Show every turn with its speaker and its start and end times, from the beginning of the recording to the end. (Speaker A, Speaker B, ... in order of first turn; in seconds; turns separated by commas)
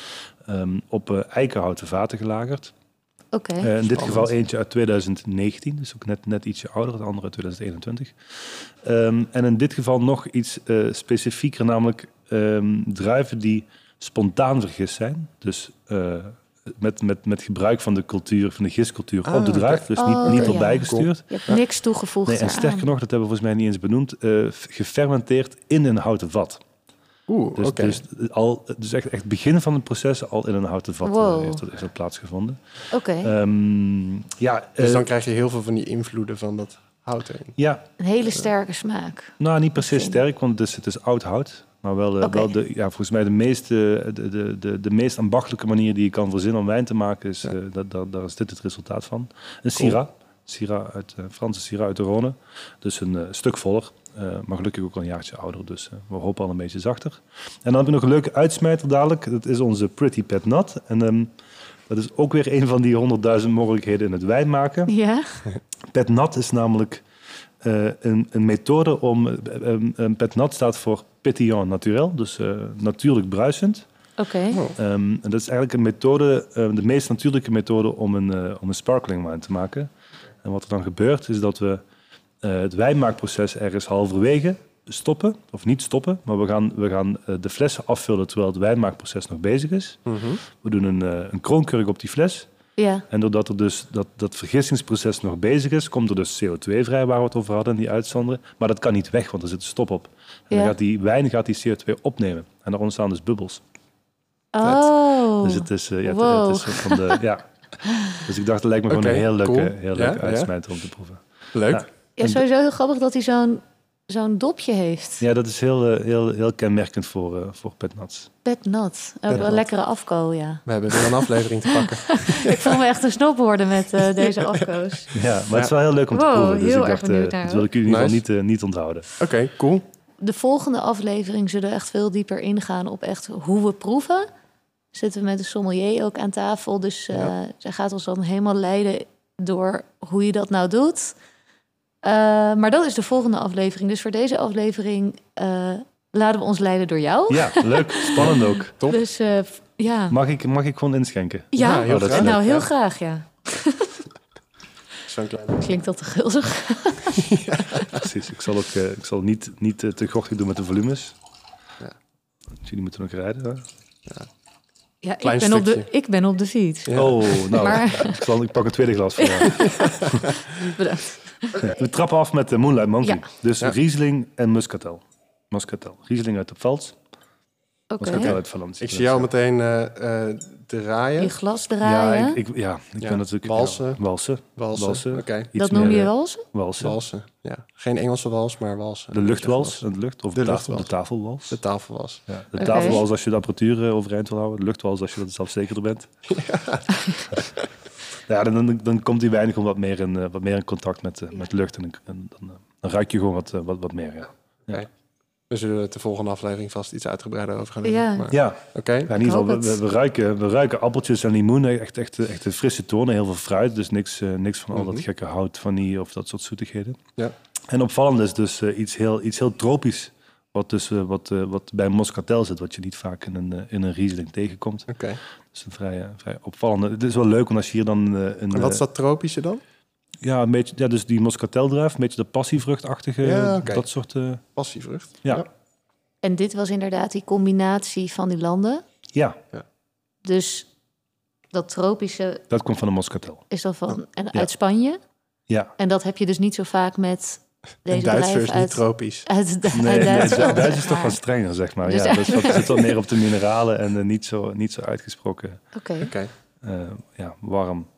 Speaker A: 0.4-2.7, Speaker B: 3.3-3.7, Speaker A: 3.6-21.6, Speaker C: 3.9-4.3, Speaker C: 19.2-21.6, Speaker B: 20.0-22.9, Speaker A: 22.2-26.6, Speaker C: 27.3-28.0, Speaker A: 27.6-32.6, Speaker B: 31.0-31.6, Speaker B: 32.9-33.3, Speaker A: 33.2-35.1, Speaker C: 34.8-37.6, Speaker A: 37.6-37.8, Speaker B: 38.0-40.2, Speaker A: 39.4-61.3, Speaker B: 42.2-42.5, Speaker A: 61.9-64.9, Speaker B: 64.9-65.5, Speaker A: 65.9-67.0, Speaker A: 67.6-73.9, Speaker B: 74.2-74.7, Speaker A: 74.8-79.9, Speaker A: 80.4-81.8, Speaker A: 82.4-90.0, Speaker C: 90.1-90.4, Speaker A: 90.5-92.5, Speaker B: 92.8-93.0, Speaker A: 93.1-103.6, Speaker B: 104.5-107.2, Speaker A: 105.4-107.5, Speaker B: 107.9-108.2, Speaker A: 108.1-112.4, Speaker C: 108.9-110.5, Speaker C: 111.5-111.9, Speaker B: 112.2-115.2, Speaker A: 115.2-118.3, Speaker B: 118.4-125.2, Speaker C: 119.3-119.6, Speaker C: 120.7-122.8, Speaker C: 124.0-124.6, Speaker A: 125.1-129.1, Speaker B: 126.1-127.7, Speaker C: 127.8-128.2, Speaker C: 129.2-129.8, Speaker B: 130.2-134.3, Speaker B: 134.9-141.2, Speaker B: 142.0-150.2, Speaker A: 147.3-148.7, Speaker C: 148.2-149.0, Speaker A: 150.1-152.4, Speaker B: 151.5-154.0, Speaker C: 151.6-152.7, Speaker C: 155.1-155.7, Speaker B: 155.6-157.9, Speaker C: 157.1-158.1, Speaker A: 157.9-161.2, Speaker A: 162.6-163.7, Speaker B: 165.0-168.2, Speaker C: 165.2-165.9, Speaker C: 166.9-167.8, Speaker A: 166.9-170.2, Speaker B: 169.2-171.7, Speaker C: 169.5-170.7, Speaker A: 171.6-177.0, Speaker B: 177.9-178.3, Speaker A: 178.0-179.3, Speaker C: 178.1-181.4, Speaker B: 181.2-182.4, Speaker A: 181.8-187.0, Speaker C: 183.0-184.0, Speaker C: 184.6-185.9, Speaker B: 185.6-186.4, Speaker C: 186.8-190.9, Speaker A: 189.1-191.6, Speaker C: 191.5-193.0, Speaker A: 192.3-196.1, Speaker B: 192.6-193.0, Speaker C: 196.3-197.7, Speaker A: 198.3-204.8, Speaker C: 205.5-209.1, Speaker B: 207.8-208.3, Speaker A: 208.3-217.0, Speaker B: 209.2-209.8, Speaker C: 214.7-215.1, Speaker A: 217.7-224.9, Speaker C: 224.9-225.2, Speaker A: 225.5-228.8, Speaker C: 228.5-229.6, Speaker A: 230.2-234.4, Speaker C: 233.2-233.9, Speaker C: 234.6-235.5, Speaker B: 236.2-238.8, Speaker A: 239.1-239.4, Speaker B: 240.2-240.7, Speaker B: 241.5-242.4, Speaker A: 242.5-243.4, Speaker B: 243.5-245.0, Speaker B: 245.8-251.2, Speaker C: 247.9-249.3, Speaker A: 249.7-255.6, Speaker C: 250.2-250.5, Speaker B: 251.8-252.9, Speaker B: 255.7-256.1, Speaker C: 256.0-256.3, Speaker A: 256.6-257.9